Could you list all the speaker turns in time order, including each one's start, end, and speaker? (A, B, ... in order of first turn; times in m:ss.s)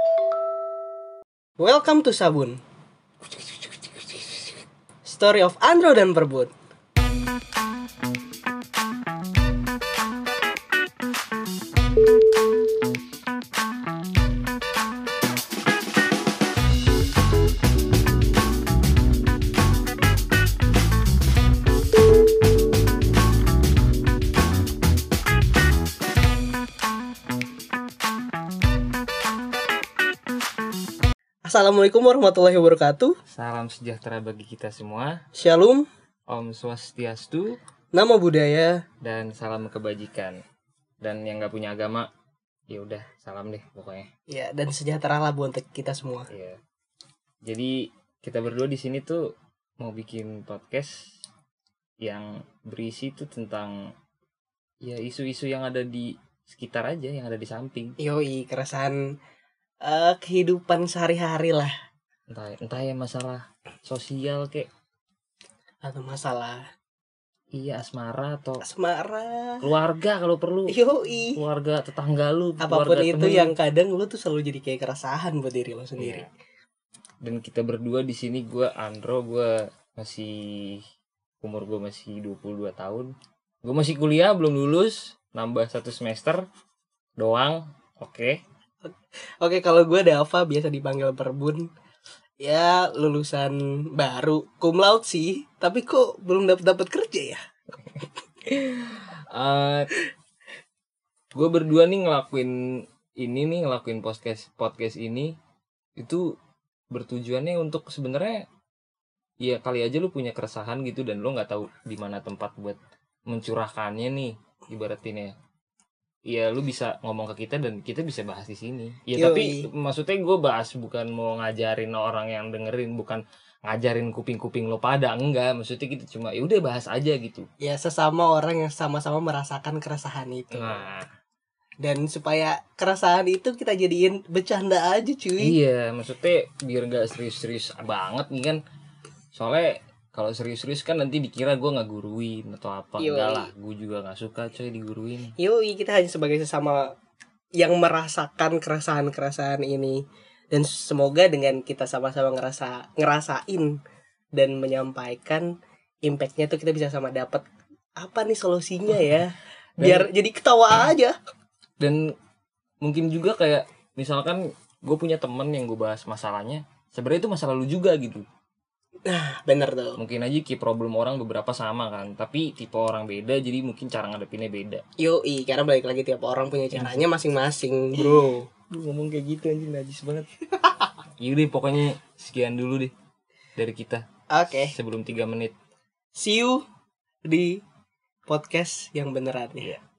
0:01.6-0:02.6 A
0:05.0-0:06.5 A
0:31.4-0:33.2 A
0:33.3-0:35.2 B
0:35.3-0:35.9 A
0:36.3-0:37.6 B
0:37.9-0:38.8 A
0:39.0-0:40.4 B
0:41.0-0:42.1 B
0:42.7-0:44.1 B
0:44.3-0:46.3 A
0:46.3-0:46.6 B
0:47.4-0:51.1 B
0:52.0-0:53.8 B
0:54.8-0:58.0 B
0:58.0-0:59.0 A
0:59.8-1:01.7 A
1:02.3-1:04.7 B
1:05.8-1:06.6 A
1:07.5-1:08.6 B
1:08.6-1:09.7 A
1:09.6-1:10.8 B
1:10.7-1:11.4 A
1:11.4-1:13.6 B
1:12.6-1:16.3 A
1:16.0-1:16.3 B
1:17.2-1:20.8 B
1:21.4-1:23.1 B
1:23.6-1:26.4 B
1:27.2-1:28.4 B
1:29.4-1:31.7 A
1:32.4-1:37.4 A
1:38.5-1:39.9 B
1:41.3-1:42.5 B
1:43.2-1:45.3 B
1:46.0-1:46.3 B
1:46.9-1:48.4 B
1:49.4-1:52.8 B
1:53.3-1:55.3 B
1:56.3-2:07.5 B
1:59.1-1:59.7 A
2:07.6-2:10.8 A
2:10.5-2:11.1 B
2:11.8-2:15.6 A
2:15.4-2:18.6 B
2:19.3-2:25.4 B
2:23.0-2:23.5 A
2:25.4-2:26.9 A
2:27.6-2:33.8 A
2:34.3-2:35.5 A
2:36.0-2:37.4 A
2:38.0-2:41.2 A
2:39.8-2:40.1 B
2:41.8-2:42.2 B
2:42.8-2:48.3 B
2:49.1-2:50.0 A
2:50.0-2:54.8 B
2:55.0-2:58.4 A
2:56.7-2:57.1 B
2:58.0-3:00.3 B
3:01.2-3:02.9 B
3:03.6-3:05.6 B
3:04.3-3:04.8 A
3:06.2-3:06.6 A
3:07.2-3:07.6 A
3:08.3-3:09.8 A